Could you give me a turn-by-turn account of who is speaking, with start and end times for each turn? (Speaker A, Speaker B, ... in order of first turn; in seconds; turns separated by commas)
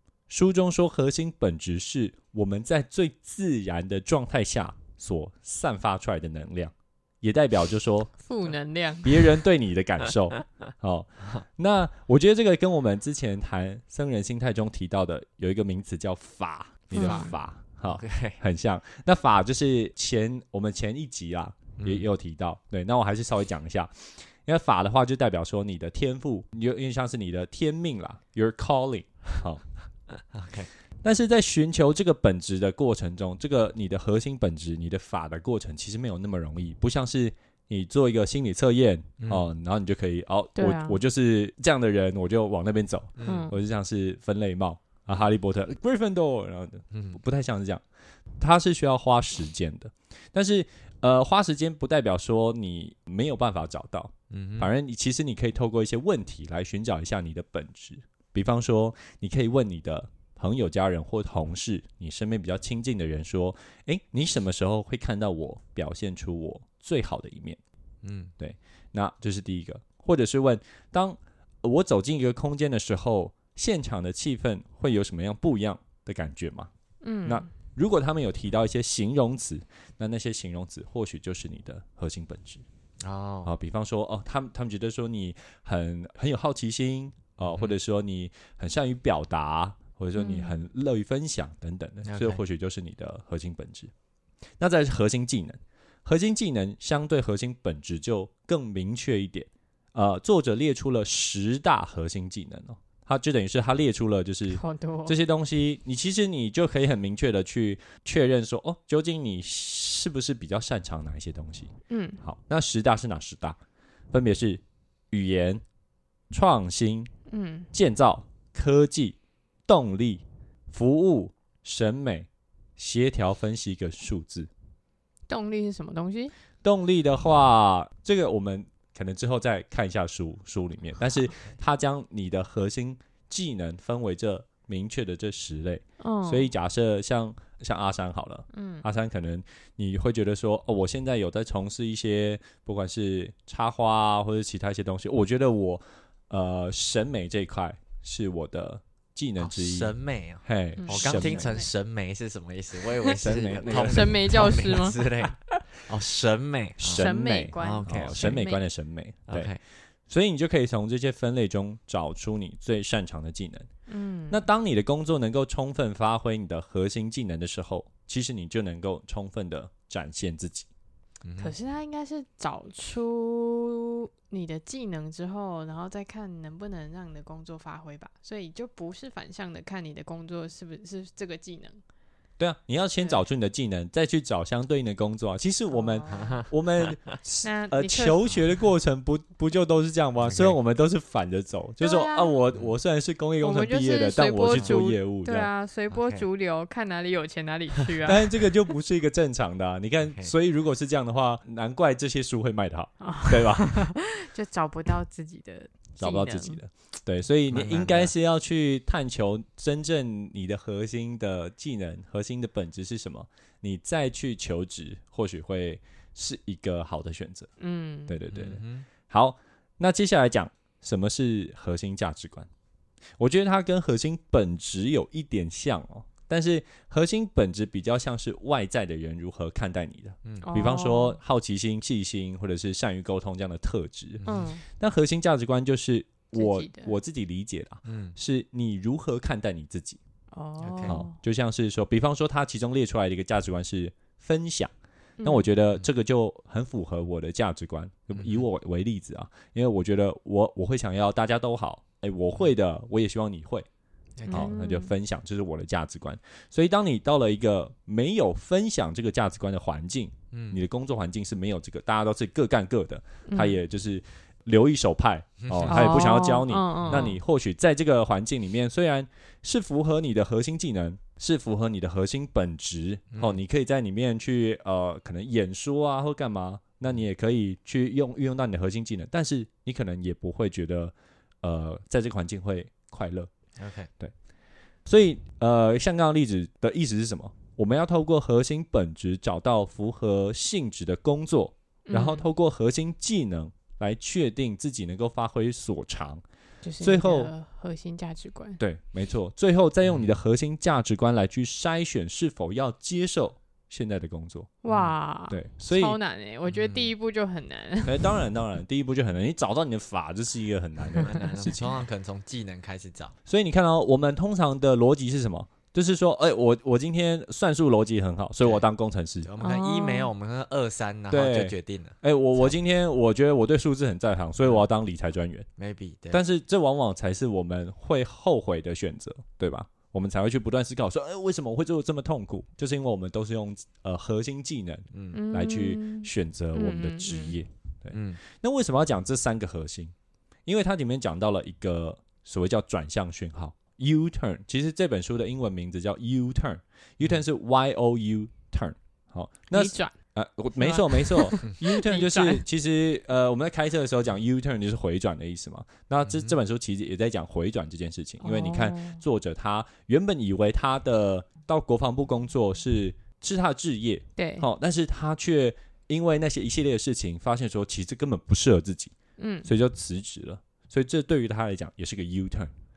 Speaker A: 0.3-8.1, Speaker B: 8.2-9.2, Speaker A: 9.0-29.6, Speaker C: 16.9-18.4, Speaker B: 16.9-17.3, Speaker C: 21.8-22.1, Speaker C: 30.3-30.7, Speaker A: 31.0-47.8, Speaker C: 39.2-39.5, Speaker B: 40.6-41.0, Speaker C: 43.2-43.5, Speaker B: 43.2-43.5, Speaker C: 46.9-47.2, Speaker A: 48.4-67.6, Speaker C: 54.3-54.7, Speaker C: 68.0-68.3, Speaker A: 68.4-76.7, Speaker B: 77.0-77.5, Speaker A: 77.2-82.6, Speaker C: 83.0-83.5, Speaker A: 83.5-93.9, Speaker C: 87.4-87.7, Speaker B: 90.2-90.6, Speaker C: 92.0-92.4, Speaker A: 94.6-113.6, Speaker B: 104.5-105.2, Speaker B: 111.9-112.2, Speaker A: 114.1-115.6, Speaker A: 116.3-117.1, Speaker B: 117.3-117.7, Speaker A: 117.7-124.5, Speaker B: 125.3-126.3, Speaker A: 126.6-151.6, Speaker B: 136.0-136.5, Speaker B: 138.5-138.8, Speaker C: 149.4-158.4, Speaker B: 150.8-151.7, Speaker A: 153.2-154.3, Speaker B: 153.7-155.2, Speaker A: 156.8-159.5, Speaker B: 156.9-158.6, Speaker C: 159.3-159.6, Speaker A: 160.1-163.7, Speaker B: 163.9-164.4, Speaker A: 164.3-170.7, Speaker C: 171.2-171.5, Speaker B: 171.4-181.8, Speaker A: 182.4-195.5, Speaker B: 185.7-186.3, Speaker C: 186.1-187.1, Speaker B: 187.4-188.4, Speaker C: 190.2-190.6, Speaker B: 191.8-192.4, Speaker B: 193.4-198.5, Speaker C: 194.5-194.8, Speaker C: 195.9-196.2, Speaker A: 198.0-203.9, Speaker B: 203.0-206.6, Speaker A: 206.0-217.5, Speaker C: 207.5-208.1, Speaker B: 217.6-218.2, Speaker A: 218.1-222.5, Speaker C: 218.3-218.8, Speaker A: 223.2-240.0, Speaker B: 230.4-231.2, Speaker C: 234.2-234.5, Speaker B: 234.2-234.6, Speaker B: 236.3-236.9, Speaker C: 237.8-238.2, Speaker B: 240.3-241.2, Speaker C: 240.6-241.0, Speaker A: 240.9-253.7, Speaker B: 245.2-245.5, Speaker C: 248.1-248.4, Speaker C: 254.2-254.5, Speaker B: 254.3-254.9, Speaker A: 254.3-283.3, Speaker C: 260.3-260.6, Speaker B: 263.3-263.6, Speaker C: 265.4-266.0, Speaker B: 265.7-267.2, Speaker C: 266.9-267.1, Speaker C: 273.1-273.4, Speaker C: 283.6-283.9, Speaker A: 284.9-296.2, Speaker B: 291.9-292.2, Speaker B: 296.6-298.6, Speaker A: 296.8-297.3, Speaker A: 298.6-304.6, Speaker C: 299.8-300.1, Speaker B: 304.6-308.2, Speaker C: 304.7-304.9, Speaker A: 305.3-306.0, Speaker C: 306.5-306.9, Speaker A: 307.8-311.8, Speaker C: 311.0-313.1, Speaker A: 313.2-319.3, Speaker C: 319.2-322.5, Speaker B: 319.4-320.1, Speaker A: 321.1-325.5, Speaker C: 325.6-326.2, Speaker A: 326.1-339.9, Speaker C: 334.9-335.2, Speaker B: 335.1-337.4, Speaker C: 337.9-338.2, Speaker A: 340.4-368.9, Speaker B: 349.5-349.9, Speaker B: 350.6-352.4, Speaker C: 356.0-356.3, Speaker B: 358.2-359.0, Speaker B: 364.2-364.5, Speaker B: 369.2-369.5, Speaker A: 369.4-372.5